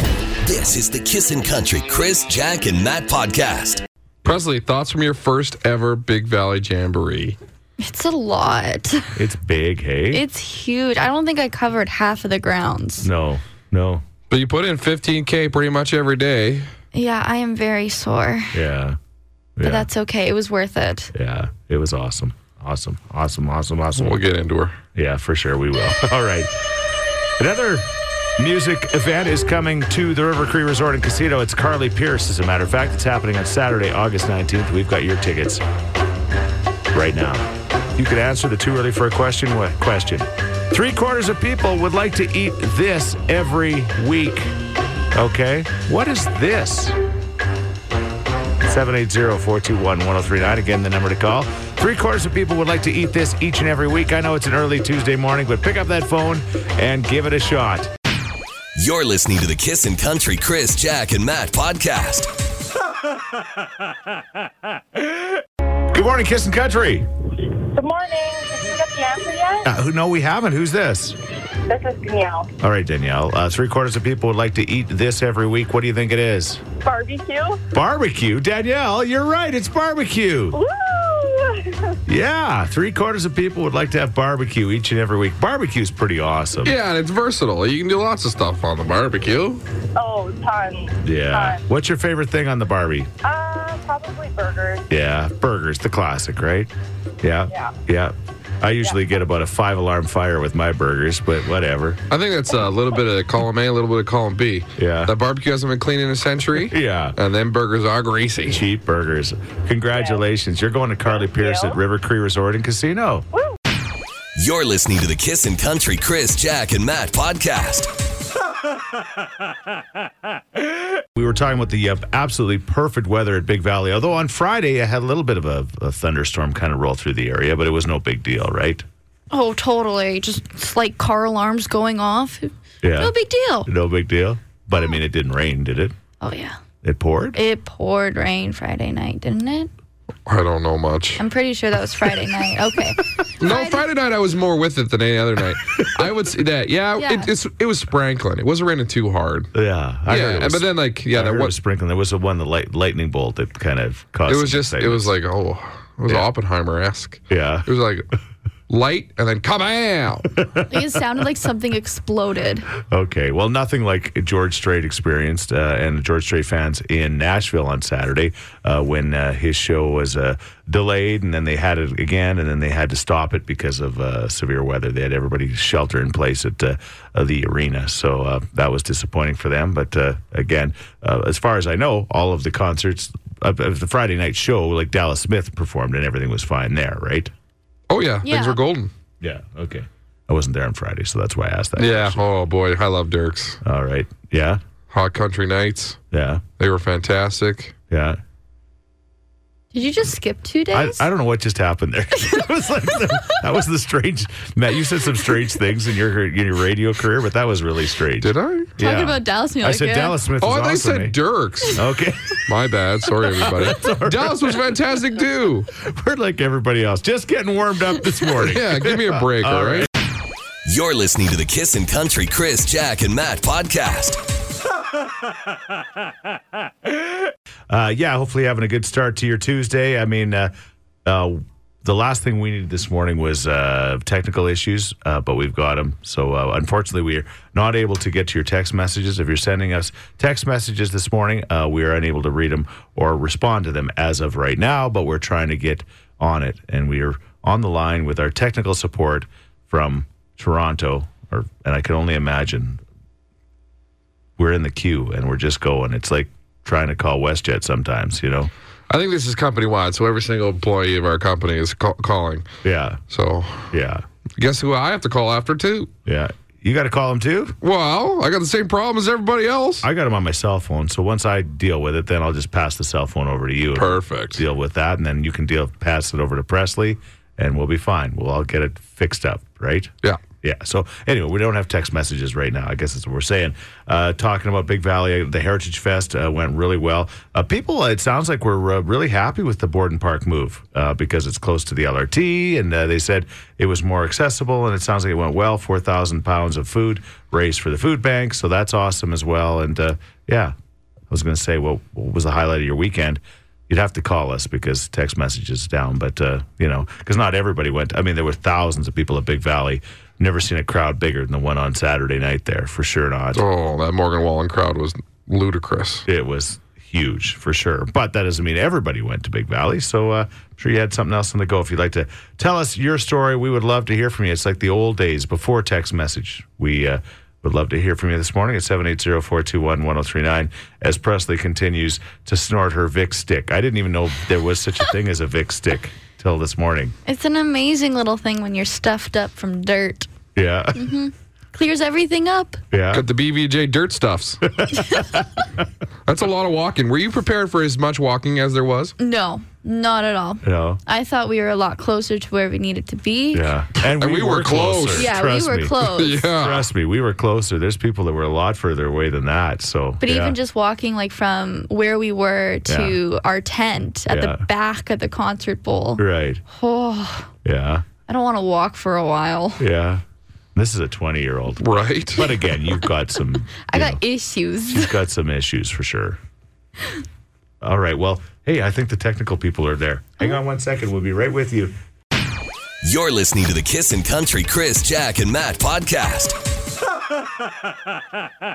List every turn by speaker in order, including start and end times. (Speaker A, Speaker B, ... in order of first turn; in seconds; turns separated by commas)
Speaker A: 0.4-3.8, Speaker B: 4.2-7.3, Speaker C: 7.8-9.2, Speaker D: 9.1-10.2, Speaker C: 10.1-13.1, Speaker D: 13.0-14.0, Speaker B: 14.3-16.7, Speaker C: 16.9-18.6, Speaker D: 18.5-19.0, Speaker D: 19.6-19.9, Speaker C: 19.6-21.1, Speaker D: 21.1-24.2, Speaker B: 23.9-24.8, Speaker D: 24.9-26.5, Speaker D: 27.4-35.6, Speaker D: 36.9-44.5, Speaker D: 45.1-47.0, Speaker D: 48.6-57.9, Speaker A: 58.7-62.3, Speaker D: 65.9-67.1, Speaker E: 67.7-69.7, Speaker D: 69.6-71.2, Speaker E: 71.7-72.5, Speaker D: 72.6-76.6, Speaker E: 76.8-77.6, Speaker D: 77.7-80.6, Speaker E: 80.5-82.0, Speaker D: 82.1-86.8, Speaker B: 86.6-89.6, Speaker E: 89.9-91.6, Speaker D: 91.0-93.1, Speaker E: 93.2-94.8, Speaker D: 94.9-96.7, Speaker D: 97.2-102.0, Speaker B: 102.1-108.6, Speaker D: 104.8-105.1, Speaker D: 106.6-107.2, Speaker D: 108.5-113.2, Speaker E: 109.9-110.2, Speaker E: 111.2-111.8, Speaker A: 114.3-117.9, Speaker D: 121.1-128.8, Speaker C: 129.3-133.7, Speaker D: 132.8-133.1, Speaker D: 133.7-135.9, Speaker C: 136.2-136.6, Speaker D: 136.8-137.4, Speaker C: 137.3-139.7, Speaker B: 140.3-141.2, Speaker C: 141.2-143.8, Speaker B: 143.4-149.5, Speaker C: 147.0-147.3, Speaker D: 149.5-155.1, Speaker B: 150.1-151.5, Speaker B: 154.3-158.1, Speaker D: 157.3-157.7, Speaker B: 158.7-160.4, Speaker D: 160.4-160.8, Speaker C: 160.7-162.7, Speaker D: 162.9-187.3, Speaker B: 187.9-188.9, Speaker C: 188.2-188.6, Speaker D: 189.2-192.2, Speaker B: 191.8-193.6, Speaker D: 193.6-194.6, Speaker B: 194.9-196.0, Speaker D: 196.1-196.4, Speaker B: 196.6-197.7, Speaker D: 197.9-198.2, Speaker C: 199.7-201.1, Speaker D: 200.7-211.2, Speaker B: 208.2-208.7, Speaker C: 208.8-210.2, Speaker B: 210.4-211.8, Speaker D: 211.7-212.4, Speaker B: 212.4-215.7, Speaker D: 213.4-214.7, Speaker D: 215.8-219.9, Speaker B: 218.3-219.9, Speaker A: 220.6-224.2, Speaker D: 227.7-230.5, Speaker D: 231.0-252.8, Speaker D: 254.4-258.5, Speaker B: 258.9-262.4, Speaker D: 262.6-263.0, Speaker B: 263.1-263.7, Speaker D: 263.7-264.0, Speaker B: 264.4-265.9, Speaker D: 266.1-267.6, Speaker B: 267.6-269.9, Speaker D: 269.8-300.5, Speaker B: 273.7-274.4, Speaker D: 301.1-313.4, Speaker B: 313.3-316.1, Speaker D: 316.1-336.9, Speaker C: 337.1-340.1, Speaker D: 340.3-340.9, Speaker C: 340.7-342.6, Speaker D: 342.7-343.1, Speaker B: 342.9-344.4, Speaker D: 344.6-345.2, Speaker C: 344.7-345.2, Speaker B: 346.1-348.9, Speaker C: 349.0-353.5, Speaker D: 350.4-350.8, Speaker D: 353.3-360.4, Speaker B: 353.8-355.1, Speaker C: 354.9-356.3, Speaker B: 355.9-356.7, Speaker C: 360.0-367.3, Speaker D: 362.7-363.0, Speaker D: 364.1-364.4, Speaker D: 366.0-366.4, Speaker D: 367.4-367.9, Speaker C: 368.1-369.6, Speaker D: 369.6-370.0, Speaker D: 370.5-374.0, Speaker B: 371.6-372.4, Speaker C: 373.6-374.9, Speaker D: 374.7-376.2, Speaker D: 377.6-381.8, Speaker A: 382.8-386.3